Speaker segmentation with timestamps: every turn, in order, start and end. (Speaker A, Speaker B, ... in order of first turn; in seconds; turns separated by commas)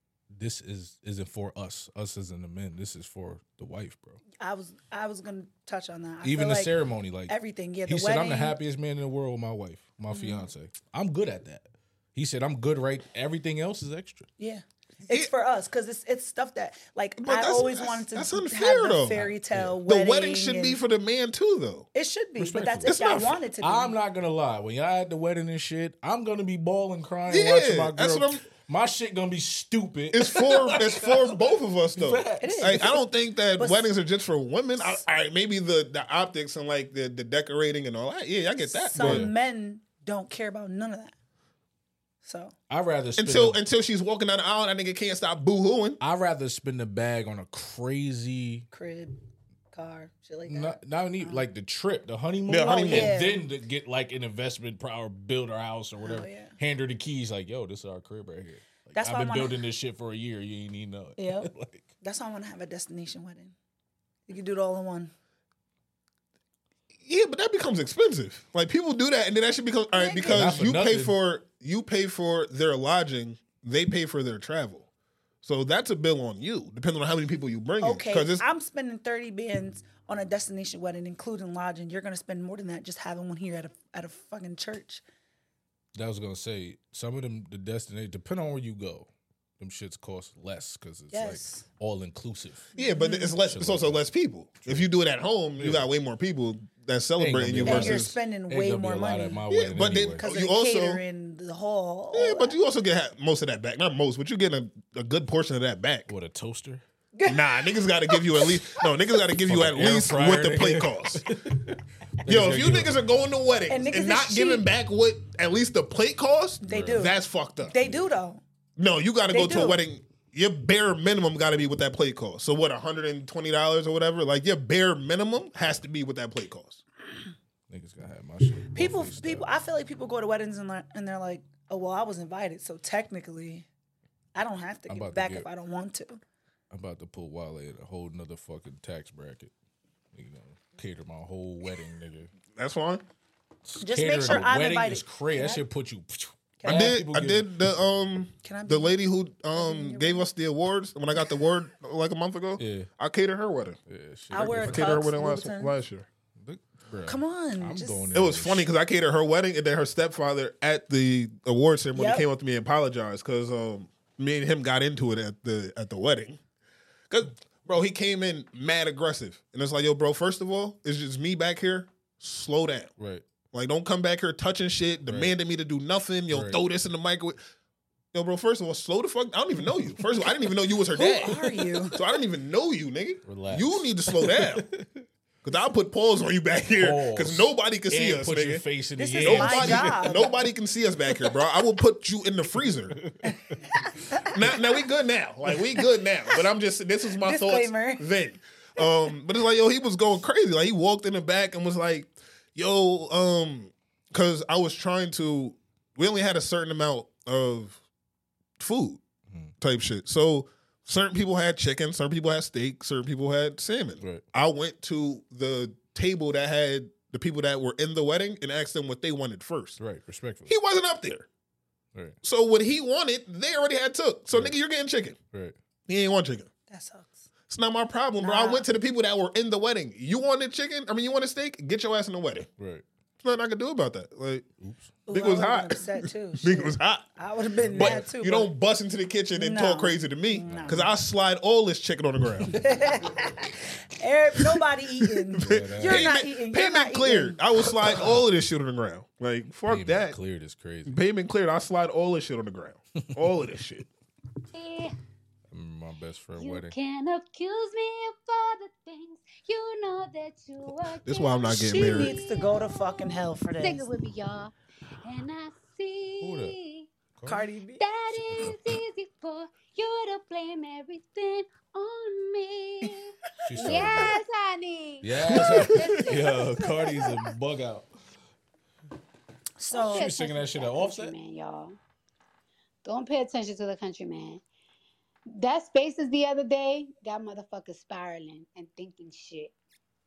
Speaker A: 0.3-4.2, Speaker B: 4.4-6.7, Speaker A: 6.2-7.3, Speaker B: 7.3-8.5, Speaker A: 7.9-14.3, Speaker B: 10.1-10.5, Speaker B: 14.4-20.8, Speaker C: 17.2-19.2, Speaker A: 19.1-19.8, Speaker C: 19.9-21.9, Speaker B: 21.9-23.9, Speaker A: 22.4-23.0, Speaker C: 22.8-23.4, Speaker A: 23.6-31.4, Speaker C: 27.3-28.4, Speaker C: 30.1-39.3, Speaker A: 31.9-32.9, Speaker B: 32.4-33.0, Speaker B: 33.6-33.9, Speaker B: 38.6-41.1, Speaker A: 39.0-39.3, Speaker B: 42.2-42.5, Speaker A: 42.7-43.6, Speaker C: 43.2-46.0, Speaker A: 46.0-48.7, Speaker B: 48.7-49.2, Speaker B: 49.7-51.5, Speaker A: 50.5-61.9, Speaker C: 52.5-53.2, Speaker B: 52.6-53.4, Speaker B: 56.0-56.5, Speaker B: 59.0-59.6, Speaker B: 61.2-61.5, Speaker B: 62.0-63.5, Speaker B: 64.3-65.1, Speaker C: 67.0-74.9, Speaker B: 69.9-70.5, Speaker A: 70.3-71.2, Speaker C: 75.4-78.5, Speaker B: 77.8-85.0, Speaker A: 86.0-89.1, Speaker A: 89.6-92.7, Speaker B: 91.1-91.6, Speaker B: 92.8-93.3, Speaker C: 92.8-98.1, Speaker A: 93.4-94.0, Speaker A: 95.6-95.9, Speaker A: 97.2-100.3, Speaker B: 97.6-99.4, Speaker C: 99.5-101.0, Speaker B: 100.2-102.6, Speaker C: 102.1-106.1, Speaker A: 106.1-106.8, Speaker B: 107.2-108.9, Speaker C: 107.3-111.2, Speaker A: 109.5-113.4, Speaker C: 112.2-117.8, Speaker B: 113.7-114.6, Speaker B: 116.6-118.4, Speaker A: 116.7-117.1, Speaker C: 118.8-126.8, Speaker B: 119.3-119.8, Speaker A: 127.7-129.4, Speaker B: 128.7-133.7, Speaker B: 134.3-136.2, Speaker A: 134.9-135.5, Speaker A: 136.7-139.5, Speaker A: 140.1-142.3, Speaker C: 142.5-143.0, Speaker A: 143.6-147.5, Speaker B: 143.8-145.6, Speaker B: 146.6-146.9, Speaker C: 146.6-153.8, Speaker B: 148.4-149.0, Speaker B: 149.5-150.2, Speaker A: 152.6-152.9, Speaker A: 153.9-155.1, Speaker B: 154.3-155.8, Speaker C: 154.4-156.1, Speaker A: 156.4-158.7, Speaker B: 157.1-158.0, Speaker C: 158.1-166.4, Speaker B: 161.9-162.2, Speaker C: 167.1-172.9, Speaker A: 173.0-173.2, Speaker C: 173.5-177.4, Speaker A: 175.1-175.3, Speaker A: 176.3-176.6, Speaker C: 178.1-184.6, Speaker B: 180.9-182.0, Speaker A: 183.2-185.0, Speaker C: 185.4-188.6, Speaker A: 186.8-190.4, Speaker B: 189.0-190.3, Speaker C: 189.2-193.0, Speaker A: 193.0-193.8, Speaker B: 193.9-194.3, Speaker C: 194.3-207.8, Speaker B: 197.2-198.0, Speaker C: 208.6-209.0, Speaker C: 209.6-219.8, Speaker A: 219.8-220.5, Speaker C: 220.5-221.3, Speaker C: 222.2-225.2, Speaker C: 225.9-226.5, Speaker B: 226.7-227.3, Speaker C: 227.5-232.5, Speaker B: 228.2-228.6, Speaker A: 232.6-232.8, Speaker C: 233.2-234.5, Speaker A: 234.6-234.9, Speaker B: 235.1-238.5, Speaker C: 235.1-237.0, Speaker A: 237.7-238.0, Speaker C: 237.7-242.6, Speaker B: 239.3-240.9, Speaker A: 240.5-240.9, Speaker B: 242.5-247.4, Speaker C: 245.1-250.2, Speaker A: 245.4-246.1, Speaker A: 249.7-250.9, Speaker C: 250.9-253.9, Speaker D: 254.5-254.9, Speaker A: 255.5-256.7, Speaker D: 256.4-263.0, Speaker C: 261.0-262.1, Speaker B: 261.5-263.9, Speaker D: 263.6-266.9, Speaker A: 266.2-266.5, Speaker A: 267.2-267.4, Speaker B: 267.2-267.8, Speaker D: 267.8-277.2, Speaker A: 268.1-268.6, Speaker A: 273.4-274.2, Speaker B: 273.6-274.0, Speaker A: 275.0-277.9, Speaker B: 279.6-280.1, Speaker D: 279.7-281.8, Speaker A: 279.8-281.1, Speaker D: 282.9-284.4, Speaker D: 285.3-289.5